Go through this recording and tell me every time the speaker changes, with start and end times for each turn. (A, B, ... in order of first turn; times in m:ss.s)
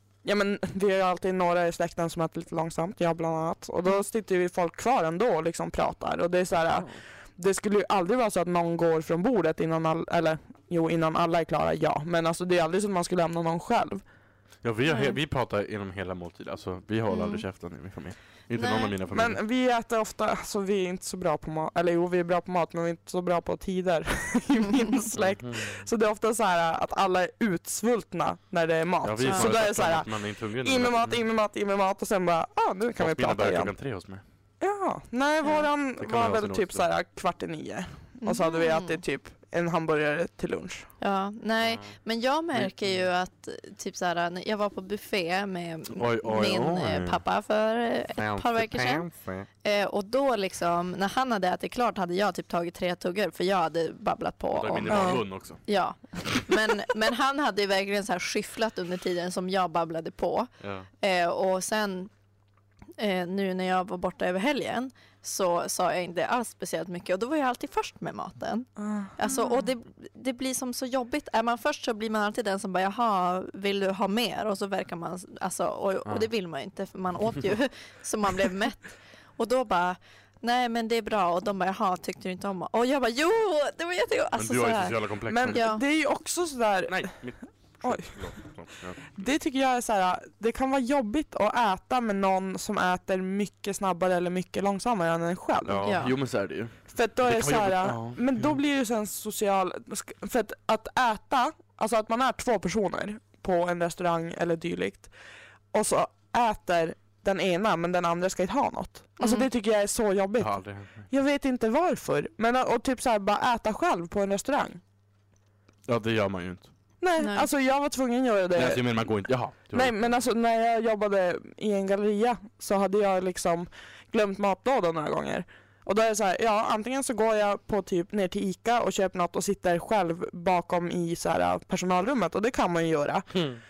0:00.2-0:14.0 A
0:06.7-0:07.0 B
0:14.6-0:19.4 B
0:14.9-0:15.2 C
0:17.1-0:17.4 C
0:18.6-0:18.9 C
0:19.1-0:30.1 A
0:25.2-0:25.8 B
0:29.0-0:31.2 B
0:29.3-0:29.5 C
0:30.6-0:33.7 A
0:33.0-0:34.2 B
0:34.6-0:40.9 A
0:36.0-0:36.9 B
0:38.2-0:39.0 C
0:41.0-0:49.1 C
0:41.6-0:42.0 B
0:42.5-0:43.0 B
0:46.0-0:47.2 B
0:48.2-0:49.5 B
0:49.6-1:02.1 C
0:54.5-0:55.6 B
1:00.6-1:00.9 B
1:03.0-1:25.0 C
1:08.8-1:09.7 A
1:24.4-1:25.6 B
1:25.3-1:27.1 A
1:25.5-1:25.8 C
1:26.9-1:29.3 B
1:27.8-1:28.2 A
1:29.2-1:35.9 A
1:35.6-1:38.5 B
1:35.8-1:36.1 C
1:36.9-1:45.1 A
1:45.7-1:54.8 A
1:49.2-1:49.5 C
1:50.4-1:51.1 B
1:55.9-1:56.7 B
1:57.0-1:58.9 A
1:57.2-1:57.5 C
1:58.5-2:00.2 B
1:59.7-2:13.3 A
2:13.3-2:13.6 B